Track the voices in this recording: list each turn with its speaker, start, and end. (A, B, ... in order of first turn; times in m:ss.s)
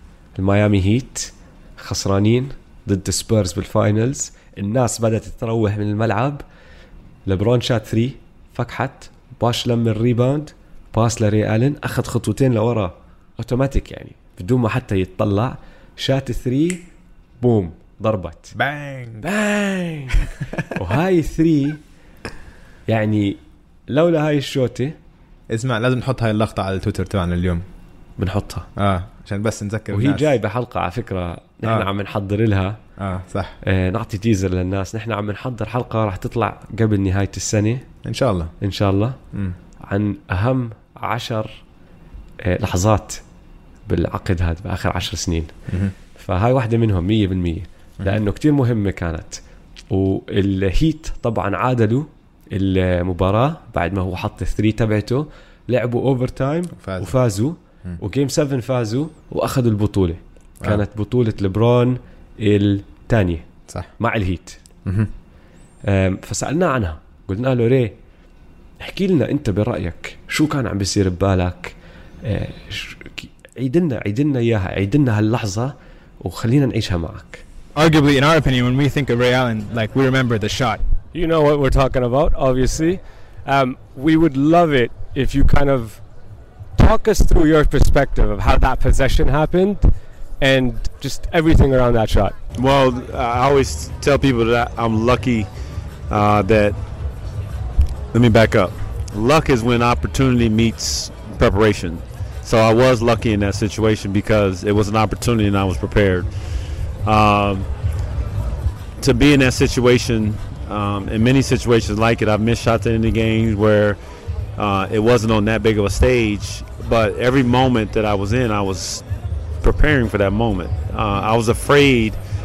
0:00.4-0:06.4 A
0:07.3-0:16.9 A
0:17.4-0:18.6 A
0:18.6-0:19.3 B
0:19.2-0:21.8 A
0:20.4-0:20.7 B
0:22.9-0:25.0 A
0:25.5-0:27.6 B
0:28.2-0:28.7 A
0:28.8-0:30.3 B
0:29.9-0:32.8 A
0:31.6-0:31.9 B
0:33.0-0:33.6 B
0:33.6-0:37.8 A
0:38.0-0:38.5 B
0:38.6-0:39.2 A
0:39.8-0:41.6 A
0:42.4-0:43.2 A
0:43.9-0:45.5 A
0:45.7-0:45.9 B
0:46.2-1:03.5 A
0:56.8-0:57.2 B
1:04.0-1:04.6 A
1:04.8-1:05.1 B
1:05.8-1:08.0 A
1:08.8-1:17.4 A
1:17.8-1:20.8 C
1:21.1-1:26.0 D
1:26.8-1:32.4 D
1:32.6-1:35.5 E
1:36.1-1:36.8 E
1:38.1-1:46.3 E
1:47.0-1:47.7 E
1:49.0-1:54.0 E
1:54.6-1:59.0 E
1:59.6-2:02.2 E